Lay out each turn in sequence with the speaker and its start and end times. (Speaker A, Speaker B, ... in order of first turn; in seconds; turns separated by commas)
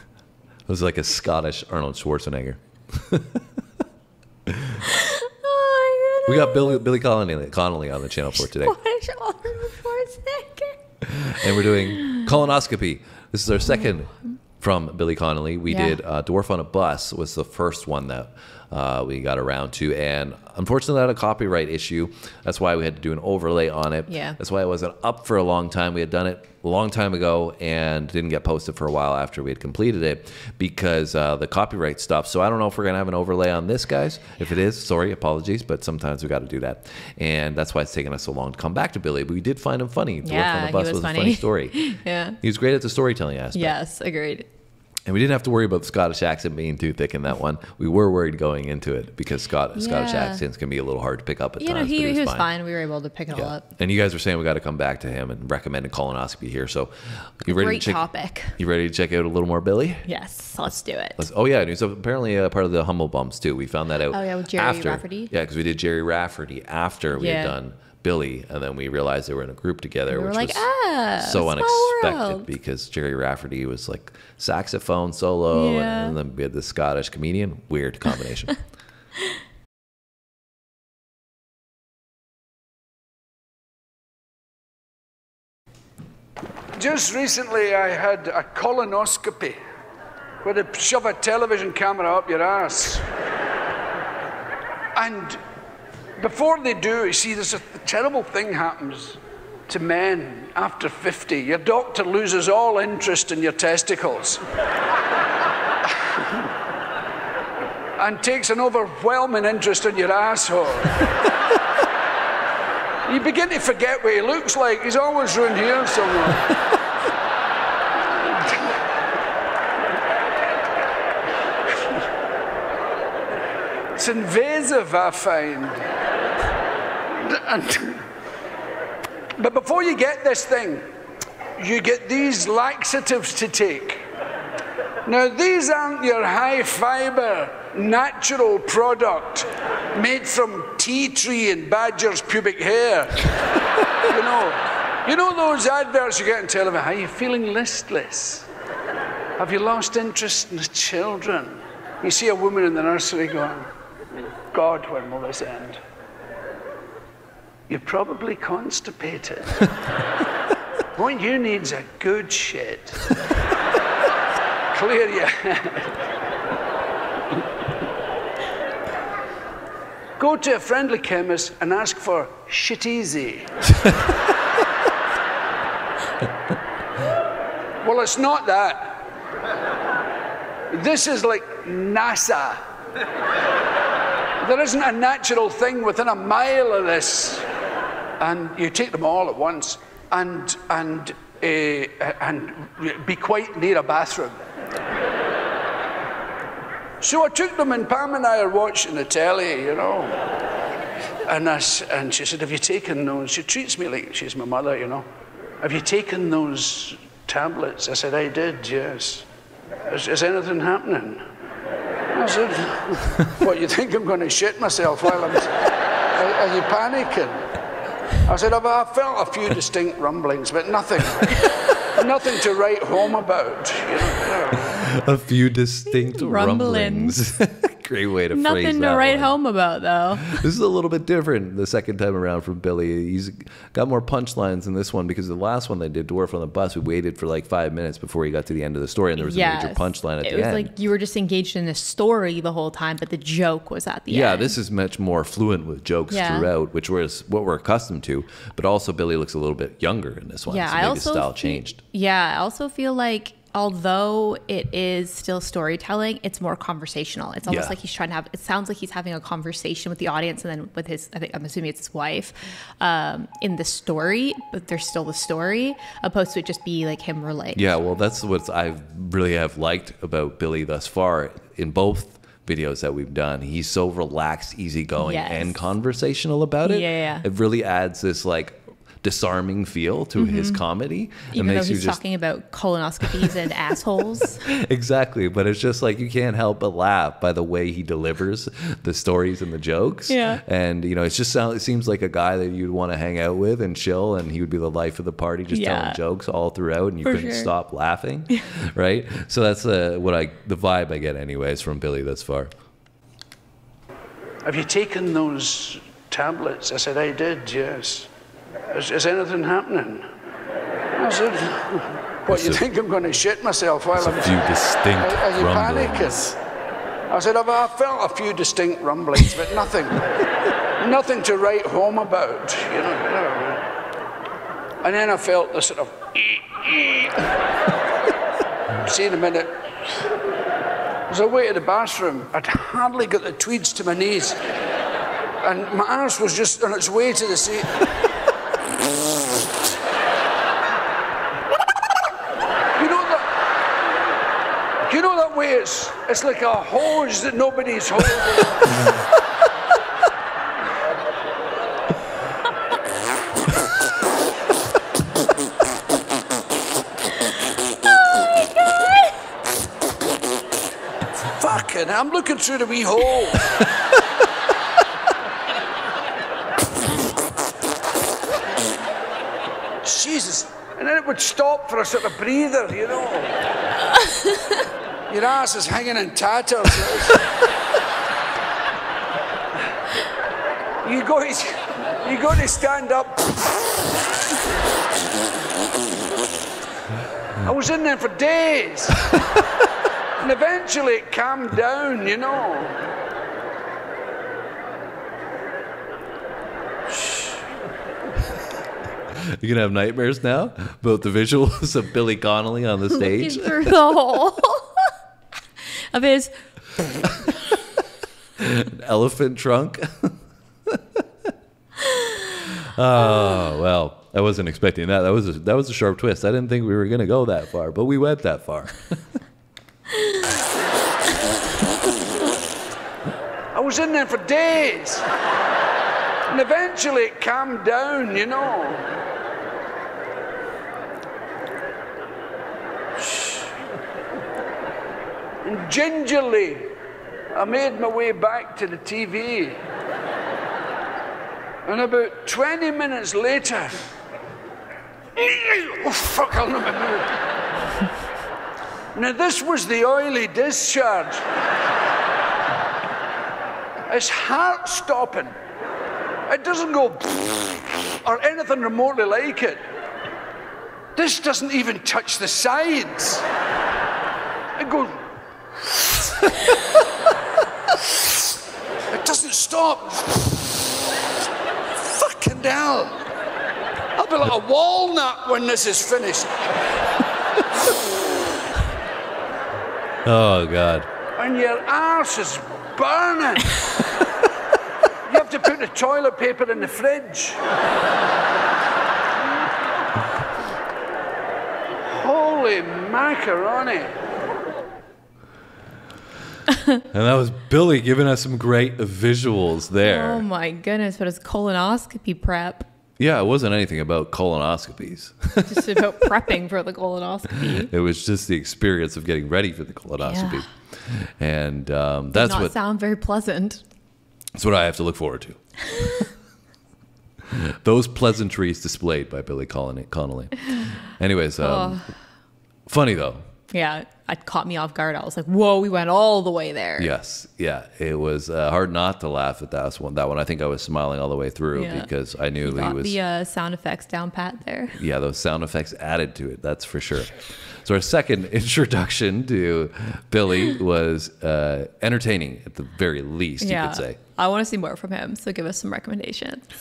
Speaker A: 0.7-3.4, Speaker A: 4.5-4.8, Speaker B: 4.9-6.8, Speaker A: 6.3-8.8, Speaker B: 8.3-10.8, Speaker A: 11.0-41.9, Speaker B: 15.7-16.0, Speaker B: 24.1-24.4, Speaker B: 40.2-42.4, Speaker A: 42.4-43.8, Speaker B: 43.5-44.5, Speaker A: 45.1-52.5, Speaker B: 49.7-50.4, Speaker B: 51.6-53.7, Speaker A: 53.3-60.0, Speaker B: 57.5-58.6, Speaker B: 60.0-61.2, Speaker A: 61.2-70.6, Speaker B: 64.1-65.3, Speaker B: 67.1-67.5, Speaker B: 70.1-72.5, Speaker A: 71.2-78.6, Speaker B: 75.5-76.2, Speaker C: 86.8-89.6, Speaker C: 90.4-93.0, Speaker C: 94.9-95.4, Speaker C: 96.2-104.4, Speaker C: 108.0-111.0, Speaker C: 113.0-116.5, Speaker C: 118.3-118.6, Speaker C: 123.9-125.8, Speaker C: 127.2-128.1, Speaker C: 129.4-130.8, Speaker C: 131.6-134.0, Speaker C: 135.1-143.3, Speaker C: 144.0-148.5, Speaker C: 149.4-153.7, Speaker C: 154.5-155.8, Speaker C: 157.7-159.6, Speaker C: 160.9-163.1, Speaker C: 164.7-165.9, Speaker C: 170.2-173.5, Speaker C: 177.8-179.0, Speaker C: 180.7-182.6, Speaker C: 184.4-187.4, Speaker C: 188.2-194.4, Speaker C: 197.0-200.2, Speaker C: 201.2-205.1, Speaker C: 205.6-209.2, Speaker C: 209.9-211.2, Speaker C: 212.1-215.5, Speaker C: 216.1-217.4, Speaker C: 218.2-224.8, Speaker A: 224.6-229.4, Speaker B: 225.9-227.2, Speaker B: 228.3-230.5, Speaker A: 230.2-240.7, Speaker B: 239.2-244.6, Speaker A: 244.1-251.8, Speaker B: 246.1-246.5, Speaker B: 250.5-267.8, Speaker A: 257.5-257.8, Speaker A: 267.5-282.0, Speaker B: 275.0-275.7, Speaker B: 276.6-277.2, Speaker B: 280.2-280.6, Speaker B: 281.3-284.4, Speaker A: 284.4-302.5, Speaker B: 290.1-290.4, Speaker B: 295.5-296.0, Speaker B: 297.0-297.5, Speaker C: 304.4-308.1, Speaker C: 308.7-310.1, Speaker C: 311.0-314.4, Speaker A: 312.3-312.6, Speaker A: 313.9-316.4, Speaker C: 315.0-316.3, Speaker C: 317.1-320.0, Speaker C: 320.8-323.6, Speaker C: 324.8-327.3, Speaker C: 328.8-329.7, Speaker C: 331.1-334.4, Speaker C: 335.4-337.8, Speaker C: 342.8-343.3, Speaker C: 344.9-348.8, Speaker C: 361.3-363.6, Speaker C: 369.8-373.4, Speaker C: 375.1-377.2, Speaker C: 380.8-383.6, Speaker C: 387.4-389.1, Speaker C: 390.2-392.9, Speaker C: 397.0-397.2, Speaker A: 399.1-403.8, Speaker B: 402.9-404.9, Speaker B: 405.9-406.3, Speaker B: 407.0-407.3, Speaker A: 408.4-410.1, Speaker A: 412.4-418.9, Speaker C: 423.5-425.1, Speaker C: 426.3-428.9, Speaker C: 433.0-433.5, Speaker C: 435.4-436.7, Speaker C: 437.3-439.6, Speaker C: 441.6-443.8, Speaker C: 445.1-447.2, Speaker C: 448.9-451.2, Speaker C: 453.9-455.3, Speaker C: 456.3-459.6, Speaker C: 460.9-463.2, Speaker C: 464.6-465.0, Speaker C: 468.9-470.6, Speaker C: 471.7-473.1, Speaker C: 473.9-476.3, Speaker A: 480.0-480.9, Speaker C: 481.2-483.6, Speaker C: 485.1-487.4, Speaker C: 491.9-493.9, Speaker A: 496.9-500.2, Speaker B: 499.8-502.7, Speaker A: 503.0-505.8, Speaker B: 505.5-507.7, Speaker A: 507.5-512.5, Speaker B: 510.0-510.4, Speaker B: 512.1-513.6, Speaker A: 514.4-515.4, Speaker B: 515.7-516.0, Speaker A: 517.3-521.8, Speaker B: 521.4-521.9, Speaker A: 522.7-523.2, Speaker B: 523.5-526.9, Speaker A: 526.8-533.0, Speaker B: 531.5-531.9, Speaker B: 532.4-534.8, Speaker A: 534.7-544.0, Speaker B: 543.4-546.5